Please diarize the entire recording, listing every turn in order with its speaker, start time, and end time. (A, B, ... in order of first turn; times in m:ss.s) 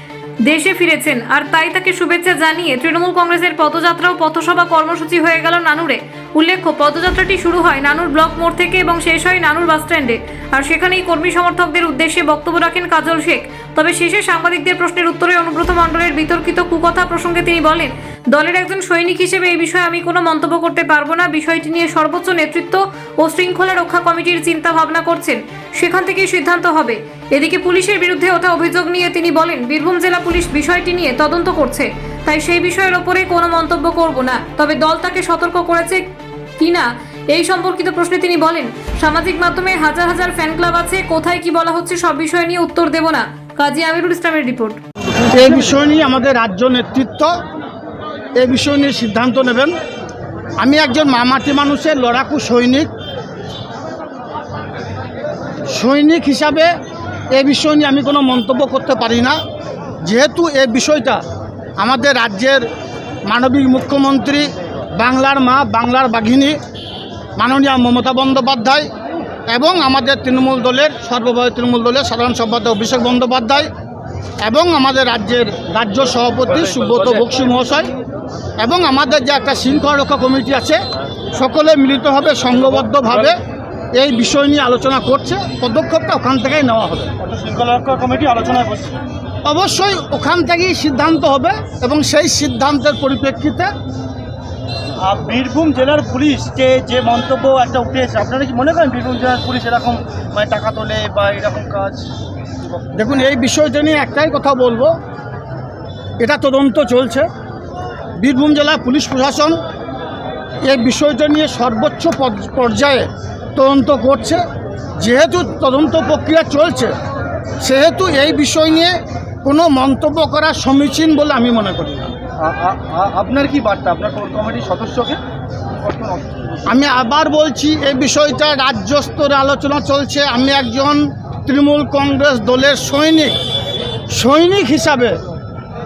0:00.4-0:36.0 A
0:36.6-0:44.8 A
0:45.2-0:47.3 B
0:48.4-0:49.7 B
0:50.6-0:52.9 B
0:55.7-0:56.7 B
0:57.3-0:59.4 B
1:00.0-1:01.2 B
1:01.8-1:02.6 B
1:03.3-1:06.6 B
1:07.4-1:08.9 B
1:09.5-1:13.7 B
1:14.4-1:17.9 B
1:18.6-1:20.8 B
1:21.3-1:23.4 B
1:24.0-1:27.1 B
1:27.2-1:28.9 C
1:29.4-1:33.7 B
1:35.0-1:42.0 C
1:42.9-1:44.9 B
1:46.2-1:47.3 B
1:48.2-1:49.6 B
1:50.6-1:54.4 B
1:55.0-1:56.9 B
1:57.6-2:02.1 B
2:02.4-2:05.2 C
2:05.8-2:06.8 C
2:06.7-2:13.4 B
2:14.1-2:15.2 B